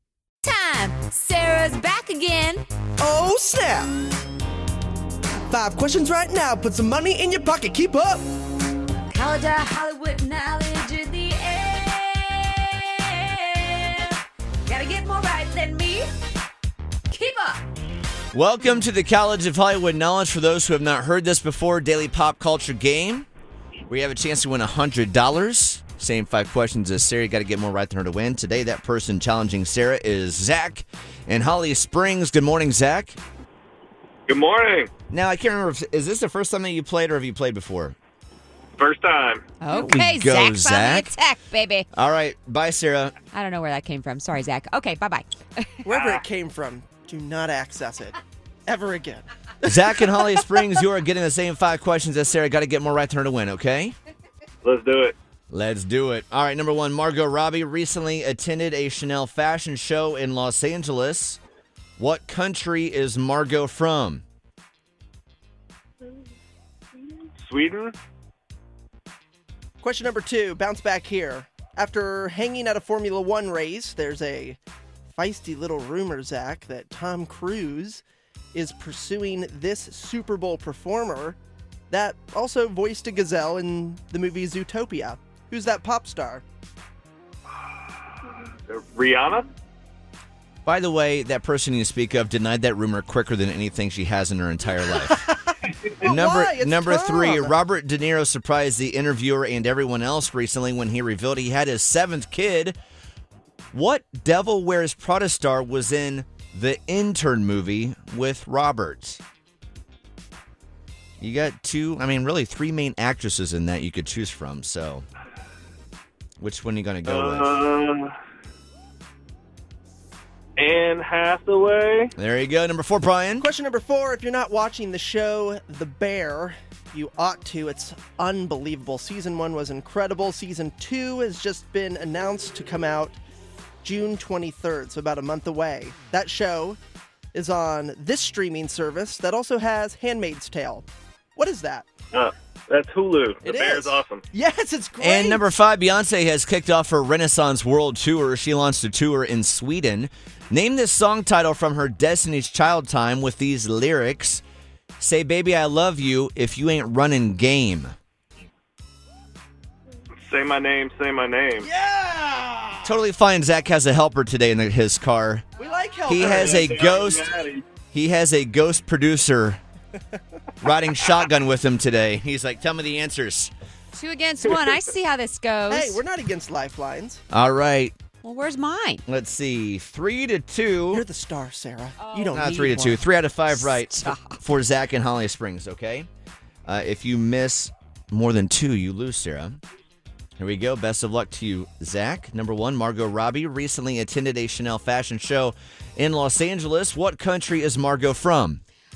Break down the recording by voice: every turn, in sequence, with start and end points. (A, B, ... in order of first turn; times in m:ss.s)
0:00.4-0:02.6 A
0:03.0-0:03.9 B
0:05.5-0:08.2 B
0:09.1-0:16.1 A
0:17.1-0:17.6 A
0:18.3-0:23.3 C
0:23.9-0:33.2 C
0:34.3-0:34.9 D
0:35.1-0:38.0 C
0:38.8-0:39.4 D
0:39.6-0:41.9 A
0:39.7-0:41.1 C
0:41.9-0:43.1 C
0:43.3-0:45.9 A
0:45.8-0:49.9 B
0:45.9-0:46.2 D
0:49.6-0:53.9 C
0:54.6-0:55.1 D
0:55.5-1:01.4 C
1:02.0-1:04.2 C
1:07.4-1:07.9 D
1:09.8-1:14.6 B
1:15.1-1:18.0 B
1:18.5-1:21.4 B
1:21.9-1:26.4 B
1:28.7-1:29.5 D
1:30.6-1:35.2 C
1:35.1-1:37.6 B
1:36.0-1:42.8 C
1:43.7-1:49.2 C
1:51.2-1:55.0 C
1:56.4-1:57.6 C
1:57.0-1:58.1 D
2:00.6-2:02.1 D
2:02.2-2:03.4 C
2:03.4-2:13.2 B
2:13.8-2:16.8 B
2:17.3-2:20.8 B
2:21.4-2:21.8 B
2:22.1-2:24.2 D
2:23.4-2:25.4 B
2:25.0-2:34.4 C
2:35.0-2:37.9 C
2:40.2-2:41.7 D
2:41.6-2:42.9 B
2:42.8-2:45.4 C
2:45.6-2:47.0 B
2:46.1-2:47.3 C
2:46.2-2:47.6 D
2:47.9-2:49.6 C
2:50.6-2:53.5 C
2:53.9-2:56.0 A
2:55.7-2:57.2 B
2:57.3-2:58.0 C
2:58.2-2:59.0 A
2:59.1-3:01.0 C
3:00.9-3:03.0 B
3:02.0-3:02.3 A
3:02.3-3:06.1 C
3:03.5-3:04.4 A
3:06.7-3:09.6 C
3:10.4-3:18.6 C